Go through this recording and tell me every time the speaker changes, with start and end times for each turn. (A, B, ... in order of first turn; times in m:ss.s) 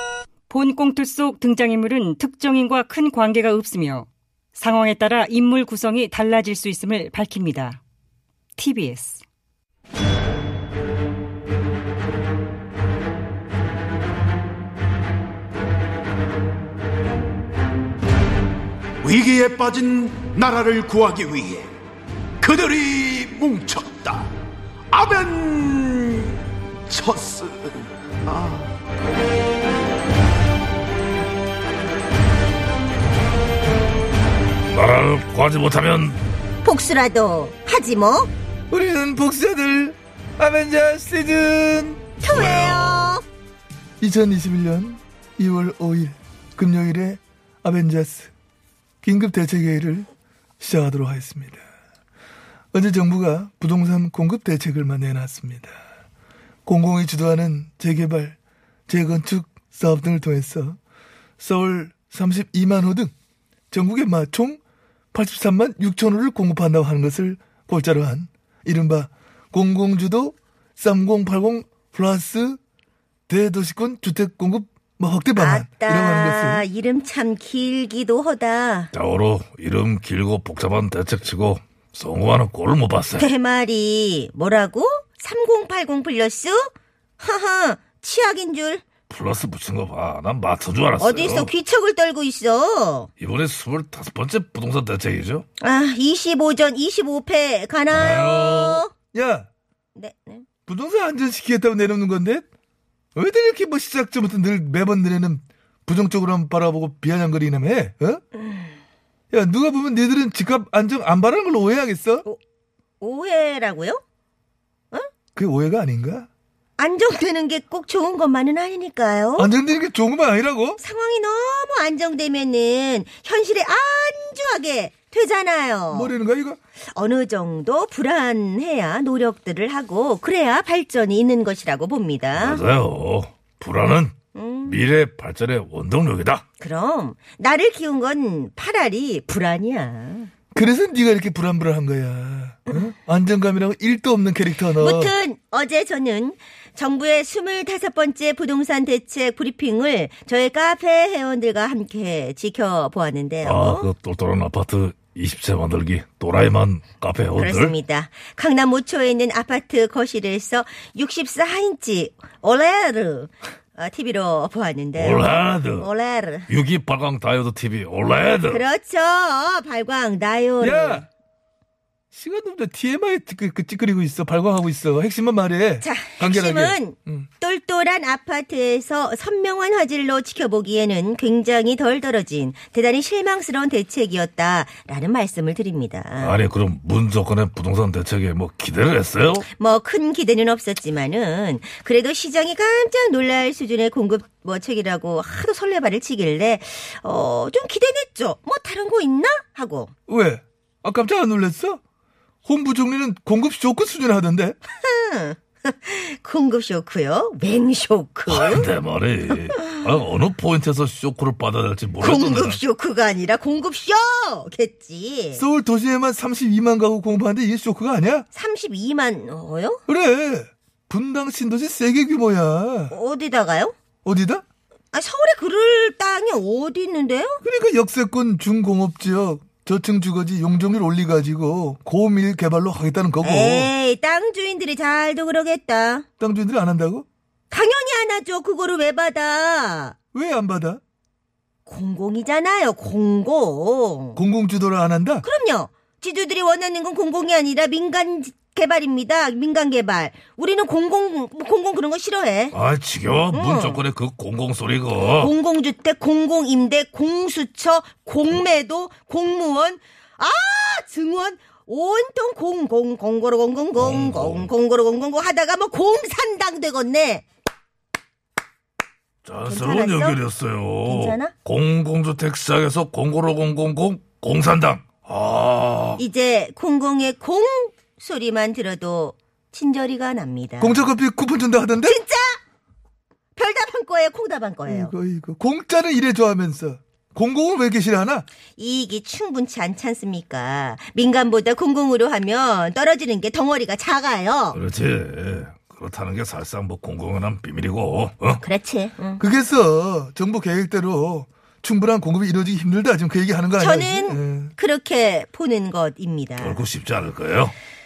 0:00.5-0:07.8 A
0:08.6-0:09.2 A
0:19.0-0:21.7 B
0:22.4-0:24.3 B
0:24.9-0:26.4 B
0:26.9-0:28.7 B
0:34.7-0:36.2 C
0:36.6-0:38.3 D
0:38.7-0:42.0 E
0:42.2-0:43.2 D
0:42.3-0:43.2 C
0:44.0-0:48.3 E
0:49.0-0:50.1 E
0:50.6-0:51.6 E
0:52.7-0:55.8 E
0:56.6-0:58.4 E
0:58.9-1:00.8 E
1:01.4-1:03.1 E
1:03.7-1:04.6 E
1:05.1-1:12.6 E
1:13.3-1:16.6 E
1:15.4-1:18.9 D
1:18.9-1:23.3 C
1:23.2-1:28.8 D
1:29.1-1:31.5 C
1:31.0-1:33.1 D
1:33.2-1:35.4 C
1:35.6-1:38.9 D
1:37.9-1:38.8 C
1:39.1-1:39.5 E
1:39.9-1:40.4 D
1:40.7-1:42.4 E
1:43.1-1:48.2 E
1:48.4-1:48.7 D
1:49.3-1:52.2 E
1:53.0-1:54.0 D
1:55.4-1:56.3 E
1:56.8-1:59.5 D
1:59.4-2:00.8 E
2:00.8-2:06.1 D
2:05.9-2:06.6 E
2:06.9-2:12.6 D
2:12.3-2:14.1 C
2:14.3-2:14.8 D
2:14.6-2:16.4 C
2:16.6-2:20.3 D
2:20.5-2:25.1 E
2:24.8-2:33.9 D
2:33.4-2:37.7 C
2:37.4-2:46.5 D
2:45.0-2:45.9 C
2:46.5-2:48.6 C
2:48.5-2:51.1 D
2:50.6-2:51.0 E
2:52.1-2:57.3 E
2:55.8-3:06.4 D
3:06.2-3:09.5 C
3:09.6-3:19.9 D
3:20.1-3:21.8 E
3:22.4-3:24.6 E
3:24.8-3:28.7 D
3:28.3-3:32.6 C
3:32.0-3:35.4 D
3:35.3-3:38.2 E
3:38.3-3:39.8 D
3:39.9-3:42.9 E
3:42.9-3:43.7 D
3:44.0-3:44.4 E
3:44.9-3:47.4 D
3:47.4-3:53.7 E
3:53.2-3:56.0 D
3:56.2-3:57.0 E
3:57.5-4:00.0 D
4:00.1-4:00.8 E
4:01.6-4:04.2 D
4:04.2-4:05.2 E
4:05.2-4:12.5 D
4:12.5-4:15.3 C
4:13.3-4:13.8 D
4:15.0-4:27.2 D
4:23.7-4:24.5 C
4:29.2-4:36.0 C
4:29.4-4:30.2 D
4:30.8-4:31.3 D
4:36.0-4:40.9 D
4:40.6-4:42.0 E
4:41.8-4:42.4 D
4:43.4-4:44.9 D
4:44.6-4:48.2 E
4:48.6-4:54.6 D
4:54.5-4:58.4 C
4:58.4-4:59.2 D
4:59.2-5:04.5 E
5:03.6-5:06.6 D
5:06.4-5:07.5 C